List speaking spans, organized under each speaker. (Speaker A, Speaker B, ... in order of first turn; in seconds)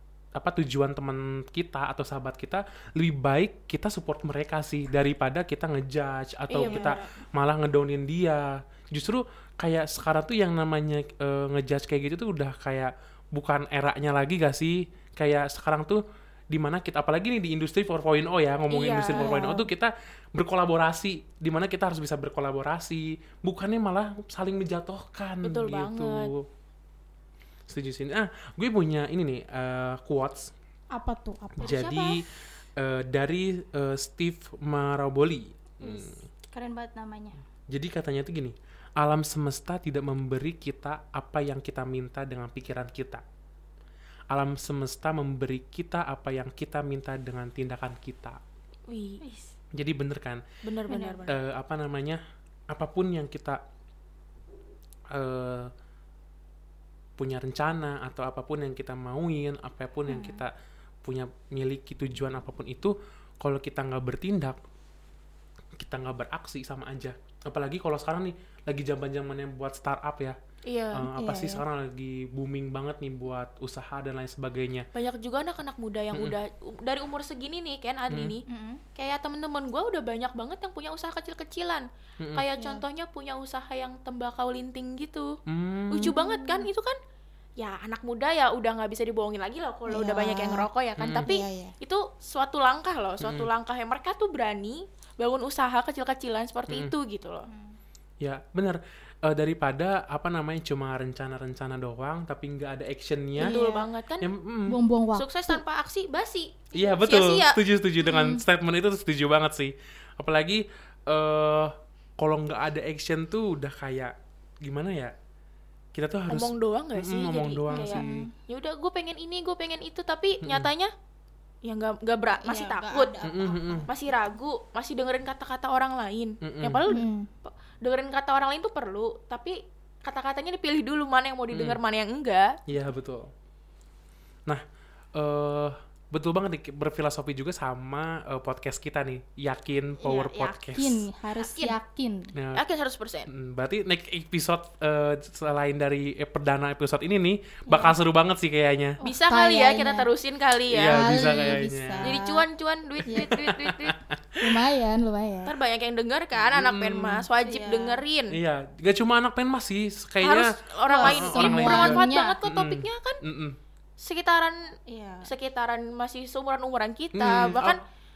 Speaker A: 0.3-26.5, 27.7-30.5, 31.6-32.2, 32.8-36.1, 37.7-43.2, 44.3-48.4, 49.7-50.4, 51.2-53.6, 55.1-55.7, 57.2-60.5, 61.0-64.6, 65.8-70.4, 70.9-74.9, 78.1-78.3, 85.5-86.2, 91.0-91.3, 93.2-93.5, 96.7-96.9, 98.2-103.6, 104.2-104.8, 106.7-115.1, 115.9-118.3, 120.4-120.7, 123.2-123.9, 126.4-126.8, 131.5-131.8, 132.7-133.3, 135.1-141.1, 142.3-142.6, 143.3-149.0, 150.7-152.2, 153.0-154.5, 156.4-157.2, 158.3-163.6, 167.1-167.8
Speaker B: 6.5-7.0, 18.7-19.4, 25.4-26.3, 31.6-32.1, 48.9-49.2, 50.6-51.3, 70.7-71.1, 74.9-78.4, 78.9-85.4, 85.9-87.0, 87.6-97.5, 103.4-104.3, 105.1-107.6, 116.3-120.9, 121.6-123.1, 123.9-132.6, 141.4-141.8, 142.5-143.3, 149.0-154.0, 155.4-158.4, 160.2-163.2, 164.0-164.6, 165.2-167.8
Speaker C: 6.6-7.0, 19.1-19.7, 30.9-32.0, 35.8-37.4, 50.9-51.2, 60.1-60.4, 71.1-71.6, 78.5-78.8, 82.6-82.8, 86.2-86.7, 89.9-90.7, 91.2-91.7, 97.5-97.8, 103.4-103.9, 104.7-105.6, 108.0-108.4, 117.7-118.3, 122.4-124.2, 126.9-127.3, 140.0-142.3, 147.7-147.9, 149.0-150.1, 150.8-152.4, 153.1-153.3, 154.4-155.5, 157.4-158.0, 160.9-162.4, 164.9-165.3